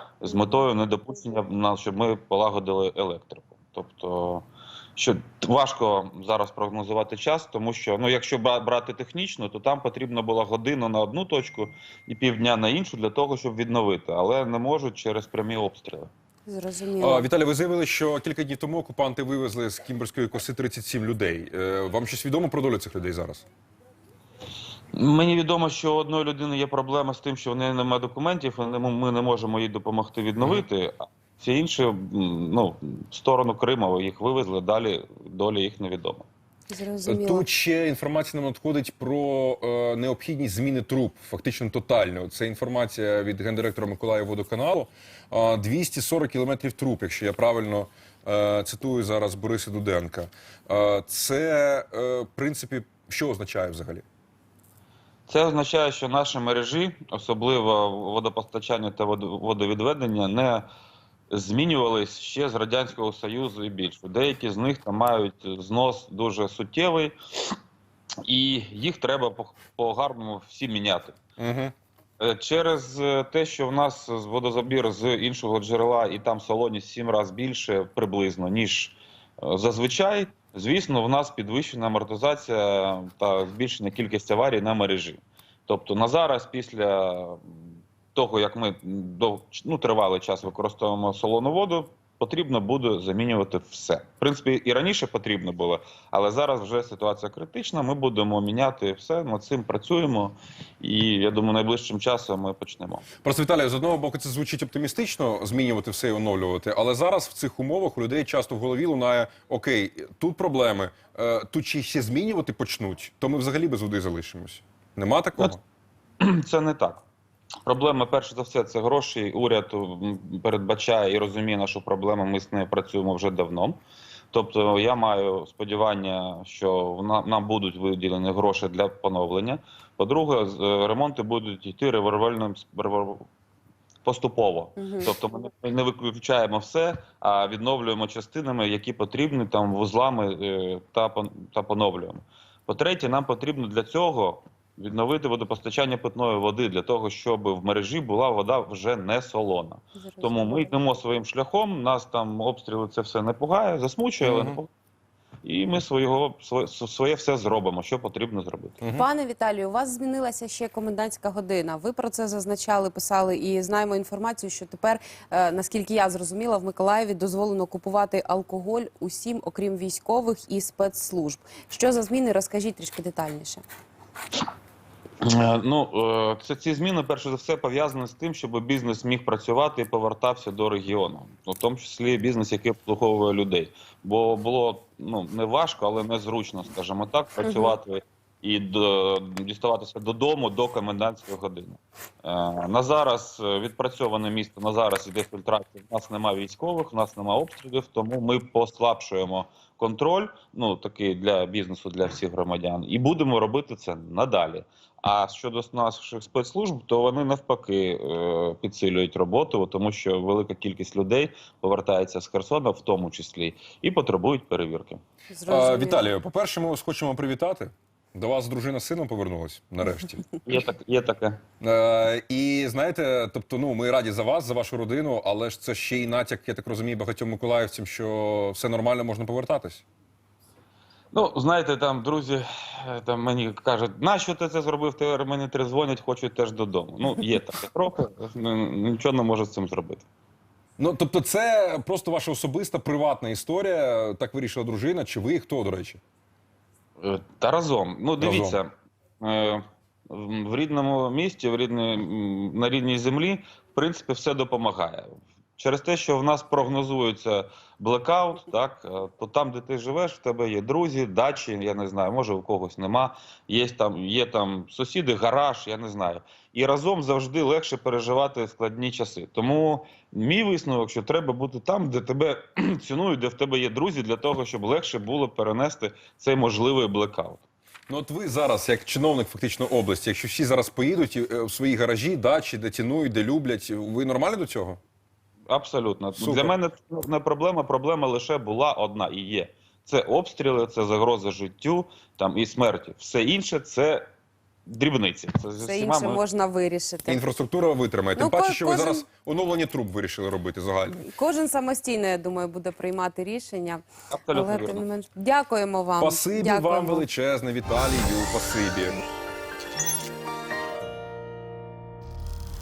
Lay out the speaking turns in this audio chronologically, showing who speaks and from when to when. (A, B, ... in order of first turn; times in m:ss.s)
0:00.2-0:16.1 A
0:00.3-0:00.6 B
0:16.5-0:17.3 B
0:17.0-0:23.4 C
0:24.9-0:36.3 A
0:30.4-0:30.6 C
0:36.7-0:37.4 B
0:37.0-0:54.0 C
0:55.3-1:00.6 A
1:01.3-1:07.2 A
1:08.2-1:11.2 A
1:11.4-1:11.7 C
1:12.2-1:27.6 A
1:28.1-1:43.1 A
1:43.2-1:55.6 C
1:56.2-1:57.0 A
1:57.7-2:03.8 A
2:04.3-2:13.2 A
2:14.0-2:34.7 A
2:14.8-2:15.1 B
2:30.0-2:30.8 B
2:34.2-2:34.6 C
2:35.4-2:38.8 A
2:38.8-2:39.1 C
2:38.9-2:53.6 B
2:55.2-3:35.0 A
3:07.4-3:07.8 B
3:35.3-3:36.1 B
3:35.5-3:40.2 C
3:40.4-3:41.4 A
3:41.6-3:49.8 C
3:51.1-4:00.1 A
4:00.8-4:06.0 C
4:07.0-4:37.4 A
4:08.2-4:08.6 C
4:37.9-4:44.8 C
4:45.5-4:54.1 A
4:46.2-4:46.5 C
4:54.7-4:56.2 A
4:55.6-4:57.2 B
4:57.1-5:01.1 C
4:58.2-4:59.1 B
5:01.0-5:07.1 B
5:04.1-5:04.8 A
5:06.0-5:09.0 C